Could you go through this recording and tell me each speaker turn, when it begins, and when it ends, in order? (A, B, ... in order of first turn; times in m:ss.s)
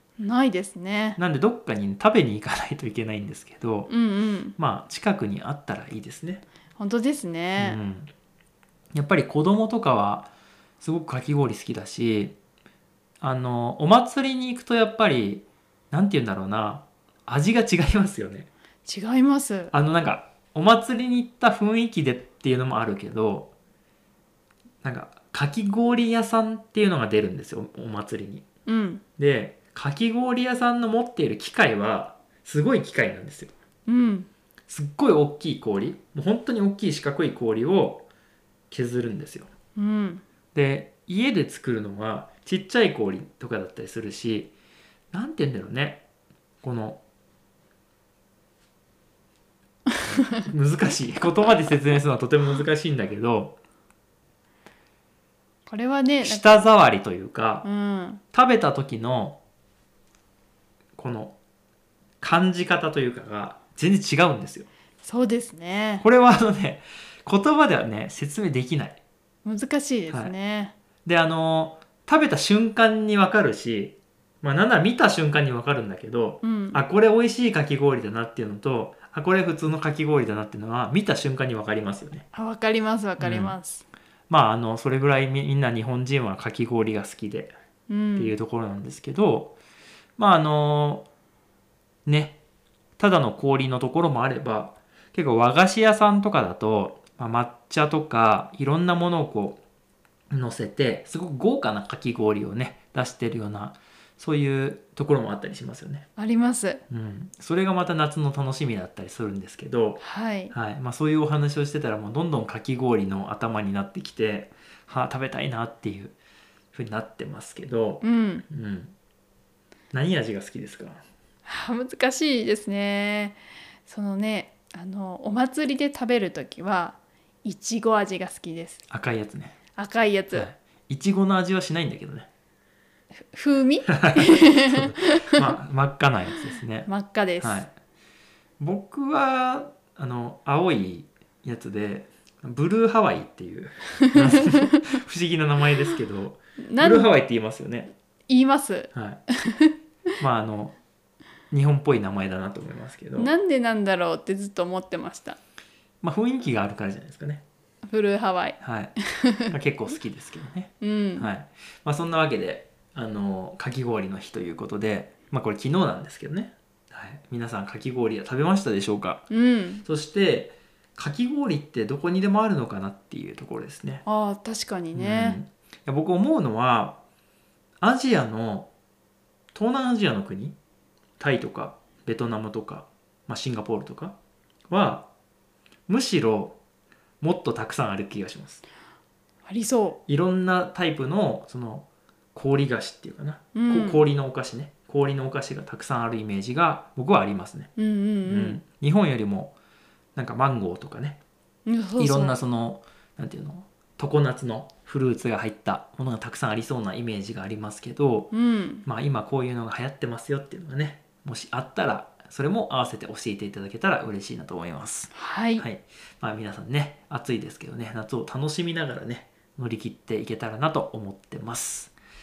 0:00.2-0:01.2 A
0:01.2-0:03.9 B
0:03.9-0:04.5 A
0:04.6-0:06.4 B
0:06.8-0:07.8 A
0:07.6-0:08.1 B
0:08.9-0:10.3 B
0:10.8-0:12.3 B
0:13.2-0:18.5 B
0:18.8-0:19.7 A
0:19.7-0:23.5 B
0:24.8-0:28.4 B
0:28.7-0:29.0 A
0:29.2-0:33.5 B
0:33.9-0:34.3 A
0:34.7-0:38.1 B
0:38.7-0:39.5 B
0:39.8-0:40.2 A
0:40.5-0:44.5 B
0:45.1-0:46.0 B
0:46.6-0:47.0 B
0:50.1-0:53.6 B
0:55.6-0:56.6 A
0:56.2-0:57.6 B
0:57.6-0:58.2 A
0:58.3-0:59.4 B
1:01.0-1:01.4 B
1:02.2-1:04.7 B
1:05.0-1:06.0 A
1:06.0-1:09.0 B
1:09.4-1:10.7 A
1:10.1-1:10.3 B
1:11.0-1:22.2 B
1:16.4-1:16.8 A
1:22.3-1:23.8 A
1:23.2-1:23.6 B
1:24.3-1:27.5 B
1:27.9-1:28.3 A
1:28.2-1:29.6 B
1:30.2-1:31.1 B
1:32.0-1:32.4 B
1:33.0-1:39.6 B
1:40.3-1:46.1 B
1:46.2-1:46.8 A
1:46.9-1:56.2 B
1:50.0-1:50.5 A
1:56.7-1:58.9 B
1:58.0-1:58.4 A
1:59.9-2:01.0 B
2:01.4-2:08.8 A
2:08.9-2:09.6 B
2:09.8-2:10.5 A
2:10.3-2:12.3 B
2:13.2-2:15.4 A
2:13.9-2:17.7 B
2:16.8-2:17.6 A
2:18.6-2:27.9 B
2:24.1-2:24.4 A
2:26.6-2:27.1 A
2:28.3-2:28.9 A
2:28.9-2:29.2 B
2:29.4-2:29.7 A
2:30.2-2:30.8 B
2:31.5-2:33.3 B
2:33.2-2:35.4 A
2:36.0-2:37.4 B
2:37.9-2:38.6 A
2:38.6-2:39.0 B
2:39.1-2:39.5 A
2:39.5-2:49.3 B
2:40.8-2:41.3 A
2:49.3-2:49.8 A
2:49.8-2:54.0 B
2:54.0-2:55.4 A
2:54.9-2:57.0 B
2:57.8-2:58.7 B
2:59.5-3:00.6 B
3:01.2-3:04.2 B
3:04.7-3:05.1 B
3:05.9-3:06.6 B
3:07.2-3:08.6 B
3:09.4-3:10.0 A
3:10.1-3:17.7 B
3:13.5-3:14.0 A
3:17.8-3:18.6 A
3:18.2-3:19.6 B
3:20.1-3:21.2 B
3:21.7-3:22.4 A
3:22.0-3:28.3 B
3:28.3-3:28.8 A
3:28.8-3:41.9 B
3:35.1-3:35.6 A